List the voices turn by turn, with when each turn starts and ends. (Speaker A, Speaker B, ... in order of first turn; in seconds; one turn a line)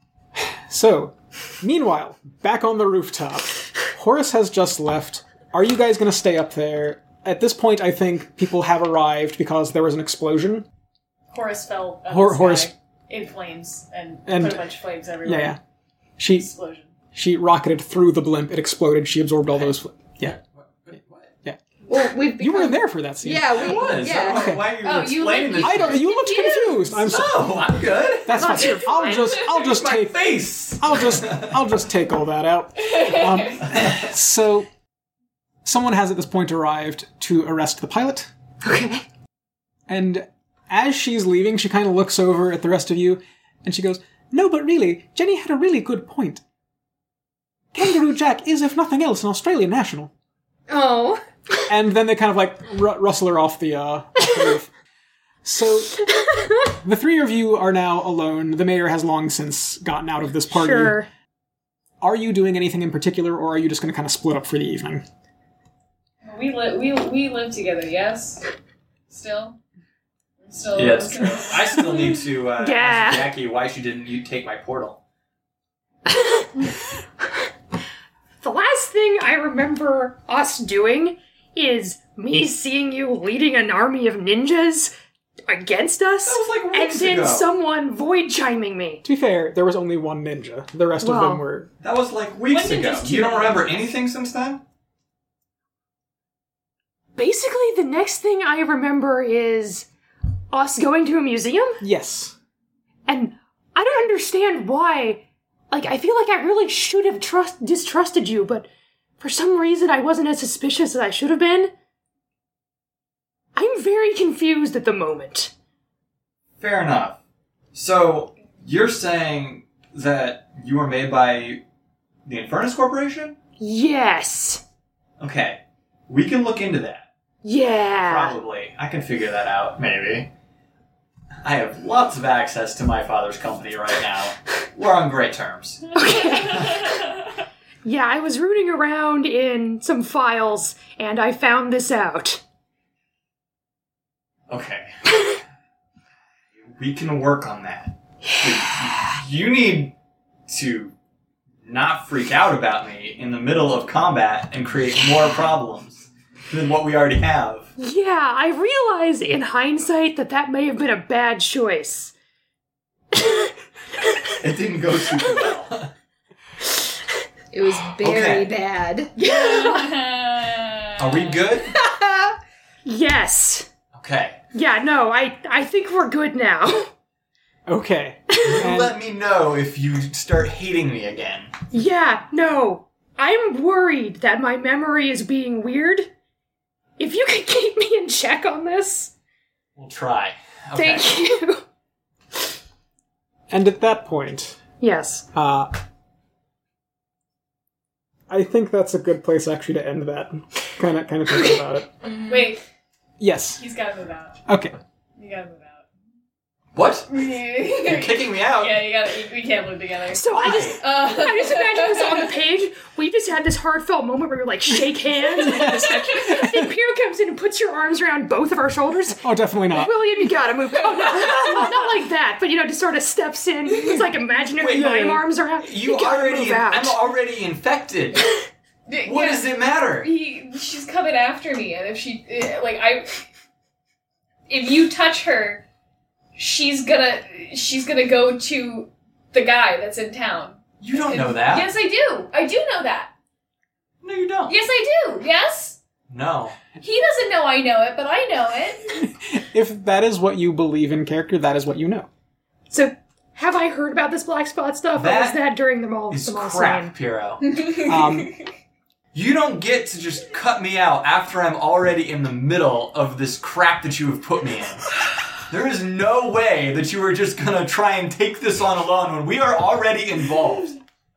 Speaker A: 0.3-10.7
Speaker B: 11.3-15.6
Speaker A: 12.1-12.7
Speaker A: 14.3-14.7
Speaker A: 15.2-15.6
Speaker A: 16.2-16.5
Speaker B: 16.3-16.9
Speaker A: 17.1-20.4
Speaker C: 20.4-21.3
Speaker D: 21.9-24.7
Speaker A: 22.4-23.7
Speaker C: 23.5-26.1
Speaker B: 24.8-27.0
Speaker A: 25.6-27.6
Speaker C: 27.0-28.6
Speaker A: 28.2-30.2
Speaker E: 28.3-29.4
Speaker C: 29.4-31.6
Speaker A: 30.8-34.7
Speaker B: 32.8-33.6
Speaker A: 35.6-38.3
Speaker D: 38.6-39.0
Speaker A: 39.9-46.4
Speaker A: 47.7-50.1
Speaker D: 50.7-51.2
Speaker A: 51.7-54.7
Speaker A: 55.4-56.0
Speaker A: 56.6-61.0
Speaker E: 60.5-61.1
Speaker A: 62.0-65.0
Speaker B: 66.2-68.4
Speaker B: 69.1-69.6
Speaker B: 70.5-72.1
Speaker C: 70.7-75.0
Speaker E: 72.6-73.3
Speaker E: 76.1-76.5
Speaker E: 78.4-84.9
Speaker E: 85.5-89.0
Speaker C: 86.2-87.5
Speaker A: 89.0-91.7
Speaker E: 91.0-91.4
Speaker C: 91.8-94.6
Speaker B: 92.5-93.8
Speaker E: 97.2-99.9
Speaker E: 100.5-101.8
Speaker A: 101.8-102.3
Speaker E: 103.1-108.7
Speaker E: 109.2-111.7
Speaker E: 113.5-115.5
Speaker C: 116.6-117.2
Speaker C: 117.7-121.6
Speaker C: 122.3-123.4
Speaker E: 123.6-124.6
Speaker C: 125.2-127.1
Speaker E: 127.4-128.4
Speaker C: 128.0-130.3
Speaker C: 131.4-135.9
Speaker E: 135.9-136.9
Speaker B: 136.3-136.7
Speaker E: 137.8-142.4
Speaker C: 144.5-145.4
Speaker C: 146.6-149.9
Speaker C: 150.5-150.9
Speaker C: 151.7-157.7
Speaker E: 157.8-162.1
Speaker E: 163.1-163.5
Speaker C: 164.4-165.9
Speaker D: 167.5-169.1
Speaker C: 168.0-168.5
Speaker E: 169.2-170.1
Speaker B: 169.2-171.6
Speaker C: 171.0-171.7
Speaker D: 171.9-172.3
Speaker E: 172.9-173.7
Speaker C: 173.9-174.4
Speaker E: 174.5-176.9
Speaker A: 177.7-179.0
Speaker C: 178.4-181.5
Speaker E: 181.7-186.1
Speaker E: 187.0-189.1
Speaker C: 189.8-191.1
Speaker E: 190.8-191.6
Speaker A: 193.5-194.6
Speaker E: 194.8-195.3
Speaker A: 195.3-195.8
Speaker A: 198.3-202.1
Speaker D: 202.0-202.6
Speaker B: 202.3-202.6
Speaker A: 203.2-203.6
Speaker B: 203.6-204.4
Speaker A: 204.5-204.8
Speaker B: 205.2-205.9
Speaker C: 206.8-208.9
Speaker B: 207.1-212.3
Speaker E: 210.1-227.0
Speaker C: 210.3-210.8
Speaker A: 215.4-216.7
Speaker A: 219.2-219.9
Speaker C: 224.6-228.3
Speaker A: 224.8-225.2
Speaker B: 228.9-233.3
Speaker C: 229.0-230.1
Speaker B: 234.5-235.6
Speaker B: 236.3-243.1
Speaker C: 240.8-241.7
Speaker C: 244.0-244.6
Speaker B: 244.5-245.8
Speaker C: 246.1-246.6
Speaker B: 246.8-248.9
Speaker A: 249.0-252.1
Speaker E: 252.7-256.9
Speaker C: 255.0-255.5
Speaker C: 256.1-257.7
Speaker B: 257.4-258.3
Speaker A: 257.9-258.3
Speaker C: 259.1-264.9
Speaker C: 265.5-270.8